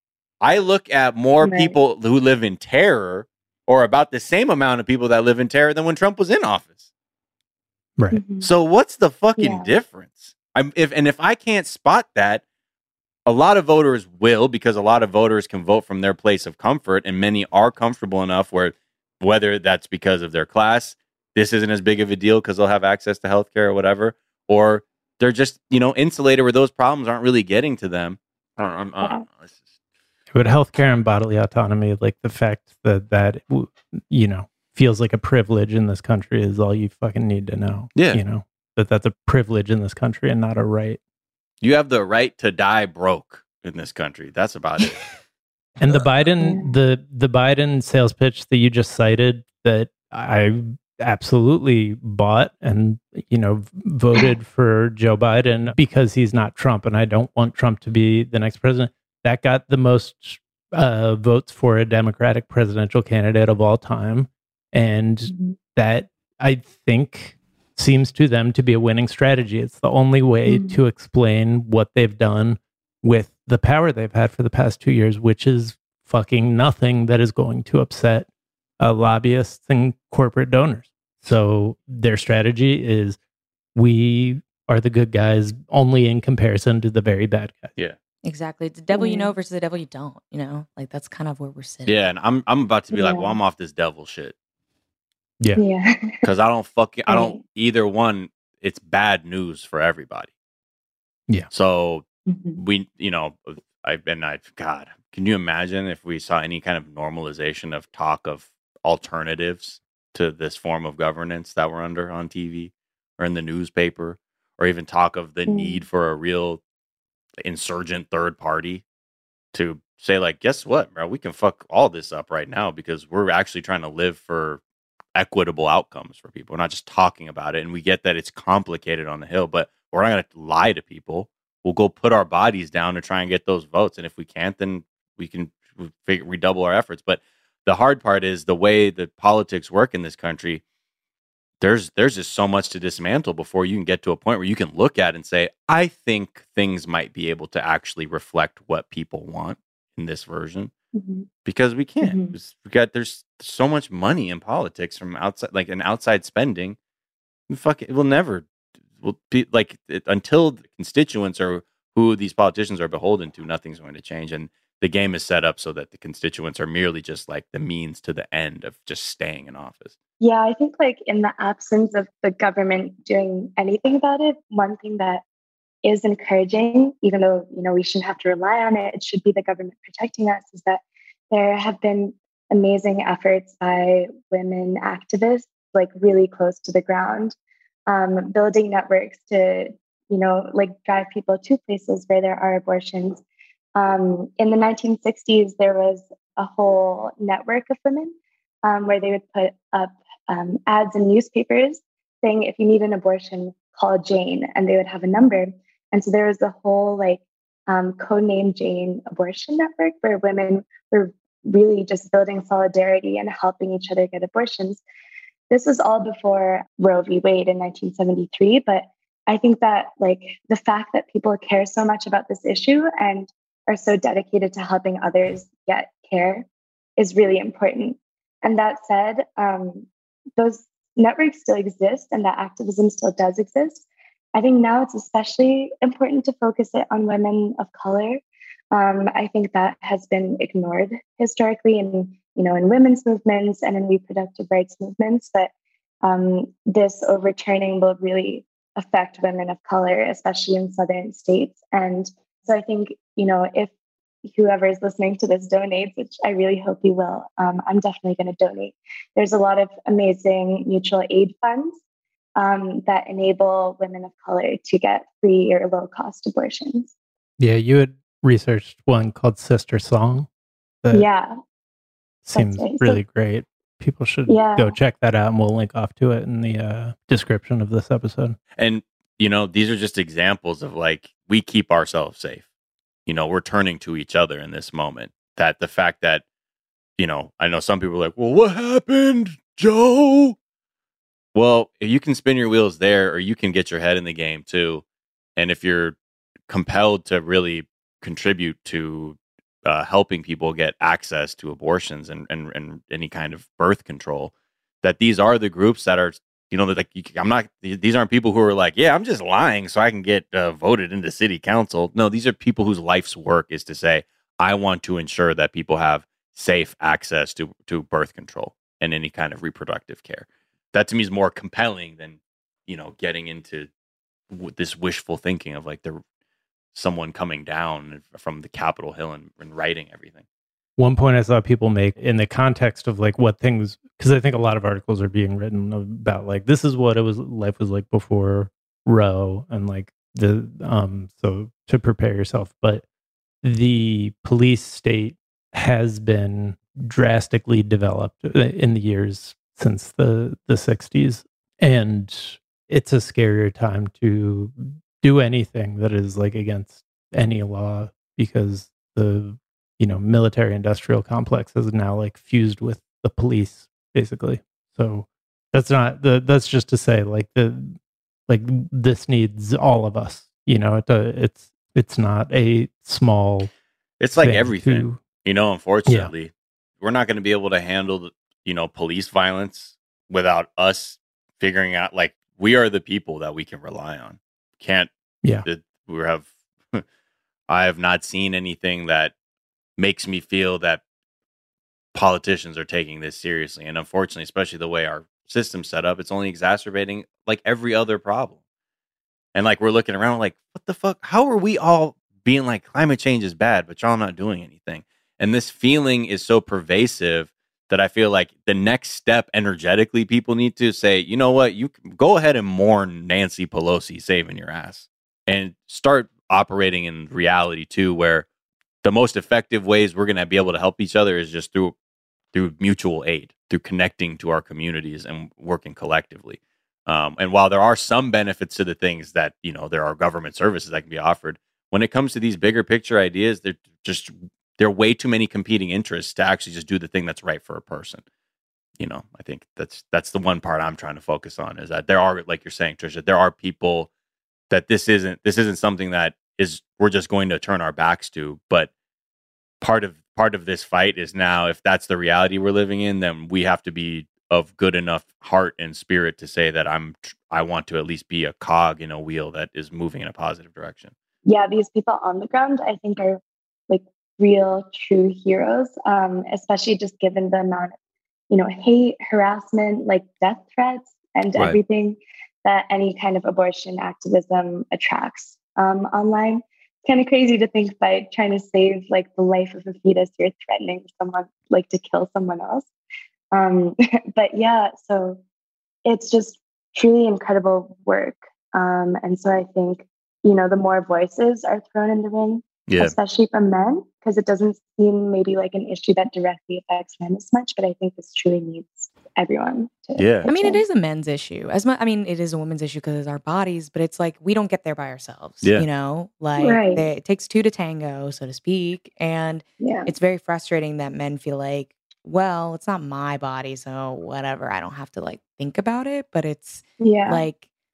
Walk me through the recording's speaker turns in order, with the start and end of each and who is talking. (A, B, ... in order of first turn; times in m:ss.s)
0:00.4-0:06.8 A
0:01.4-0:01.7 B
0:08.1-0:08.5 B
0:08.4-0:12.4 A
0:09.4-0:09.7 B
0:13.2-0:29.6 A
0:30.3-0:41.0 C
0:37.9-0:38.2 A
0:41.6-0:45.0 A
0:45.8-1:18.3 C
0:46.4-0:46.7 B
1:05.3-1:05.6 B
1:10.4-1:10.8 B
1:18.8-1:23.2 C
1:23.7-1:27.7 C
1:28.2-1:32.0 D
1:28.9-1:29.3 B
1:31.8-1:34.3 A
1:32.9-1:33.4 B
1:35.6-1:36.2 B
1:36.2-1:40.3 A
1:37.1-1:37.4 B
1:41.5-1:56.6 A
1:42.3-1:42.6 B
1:55.5-1:55.8 B
1:57.4-1:58.8 A
1:59.5-2:04.6 A
2:05.2-2:20.6 A
2:21.6-2:30.7 A
2:30.9-2:31.3 B
2:31.4-2:36.8 A
2:32.0-2:32.4 B
2:37.5-2:38.5 A
2:39.0-2:49.9 A
2:50.2-2:55.2 B
2:55.8-3:07.4 B
3:07.9-3:13.2 B
3:13.8-3:34.8 B
3:35.5-3:58.2 B
3:58.7-4:05.5 B
4:06.0-4:13.7 B
4:14.2-4:21.8 B
4:22.4-4:26.9 B
4:27.4-4:30.3 C
4:30.9-4:31.3 B
4:32.2-4:38.4 C
4:32.3-4:33.0 B
4:34.3-4:34.7 B
4:38.6-4:42.4 A
4:43.0-4:46.2 A
4:47.0-4:50.4 A
4:51.3-4:54.8 A
4:55.4-4:56.0 A
4:56.5-5:23.7 A
5:24.3-5:26.0 A
5:26.7-5:30.2 A
5:30.8-5:42.8 C
5:43.4-6:13.5 C
6:14.0-6:24.9 A
6:14.2-6:15.0 C
6:15.9-6:16.1 C
6:25.4-6:26.8 A
6:27.5-6:29.1 A
6:29.8-6:30.8 A
6:31.9-6:38.4 A
6:39.3-6:58.2 A
6:58.8-7:01.7 A
7:02.3-7:18.0 A
7:18.8-7:23.9 A
7:24.5-7:28.7 A
7:29.6-7:40.9 A
7:41.2-7:47.7 B
7:48.3-8:02.7 B
8:03.3-8:05.2 B
8:05.8-8:20.6 B
8:12.7-8:12.9 A
8:20.0-8:20.3 A
8:20.2-8:37.4 D
8:26.4-8:26.8 B
8:29.6-8:29.9 B
8:36.8-8:37.2 B